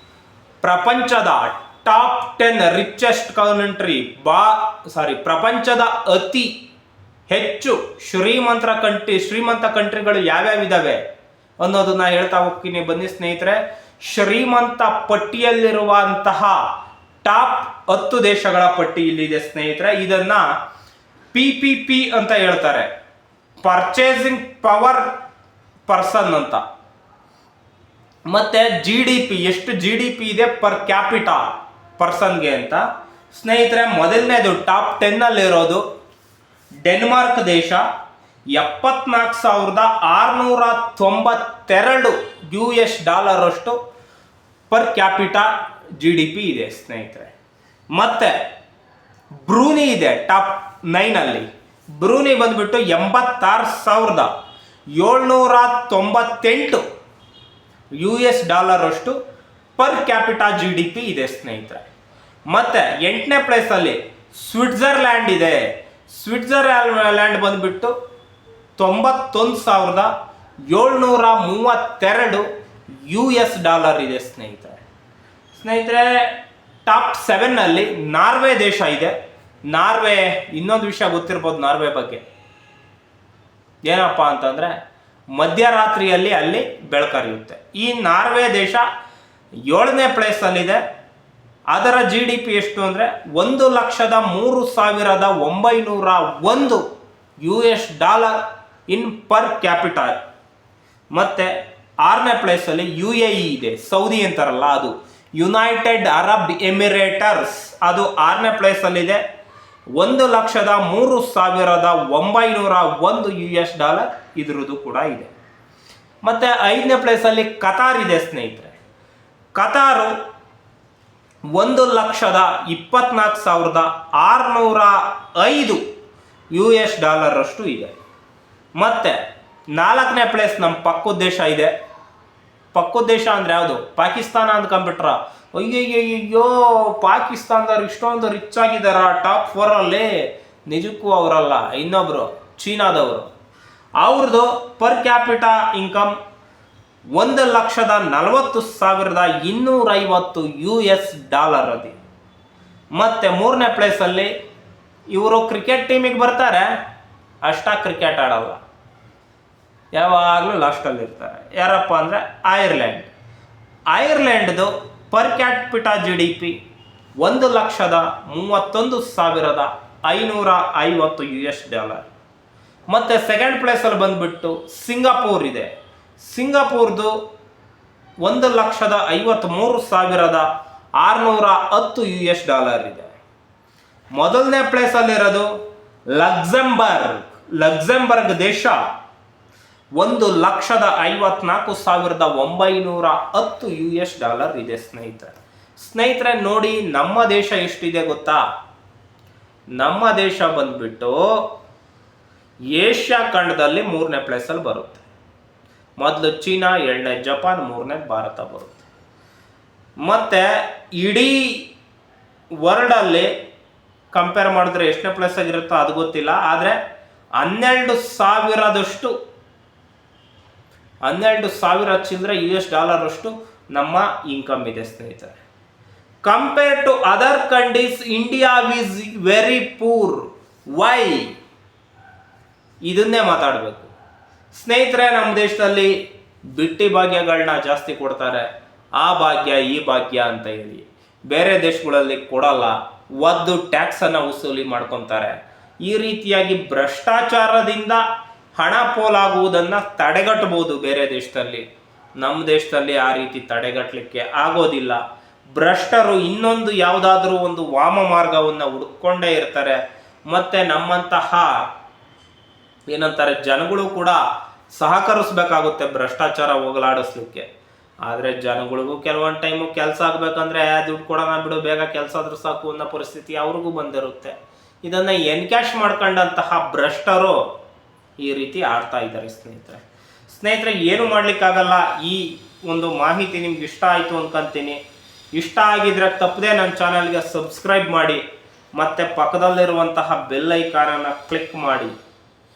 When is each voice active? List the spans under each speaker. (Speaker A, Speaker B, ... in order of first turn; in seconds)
Speaker A: 0.6-6.5, 7.3-11.0, 11.6-16.6, 17.2-20.5, 21.3-22.9, 23.6-25.1, 25.9-26.6, 28.3-31.4, 32.0-35.8, 36.8-37.8, 38.5-43.8, 44.7-47.3, 47.9-48.4, 49.5-54.3, 55.0-56.8, 58.0-59.2, 59.8-61.8, 62.5-67.9, 68.8-70.1, 70.7-72.5, 73.1-74.8, 75.5-79.2, 79.7-82.2, 83.8-84.8, 85.3-88.9, 89.7-90.8, 91.7-96.8, 97.4-100.2, 101.1-101.5, 102.0-109.2, 110.0-115.3, 116.2-118.8, 119.6-120.1, 121.5-125.8, 126.5-128.0, 128.8-129.2, 129.7-131.7, 132.7-143.3, 144.0-146.1, 147.2-152.0, 153.0-154.3, 155.1-156.7, 157.4-158.6, 159.9-163.1, 163.9-166.6, 167.2-172.1, 172.9-177.2, 178.2-180.5, 181.0-183.1, 184.2-185.5, 186.1-188.8, 190.0-198.4, 199.8-201.5, 202.7-205.0, 206.0-208.8, 210.0-211.7, 212.6-213.3, 214.1-216.8, 217.4-219.1, 221.1-225.4, 226.2-231.3, 232.8-233.9, 234.5-235.9, 236.5-248.0, 248.6-251.7, 252.2-255.0, 255.5-261.5, 262.9-264.2, 264.8-267.5, 268.1-277.4, 278.2-284.8, 285.3-288.2, 288.8-291.9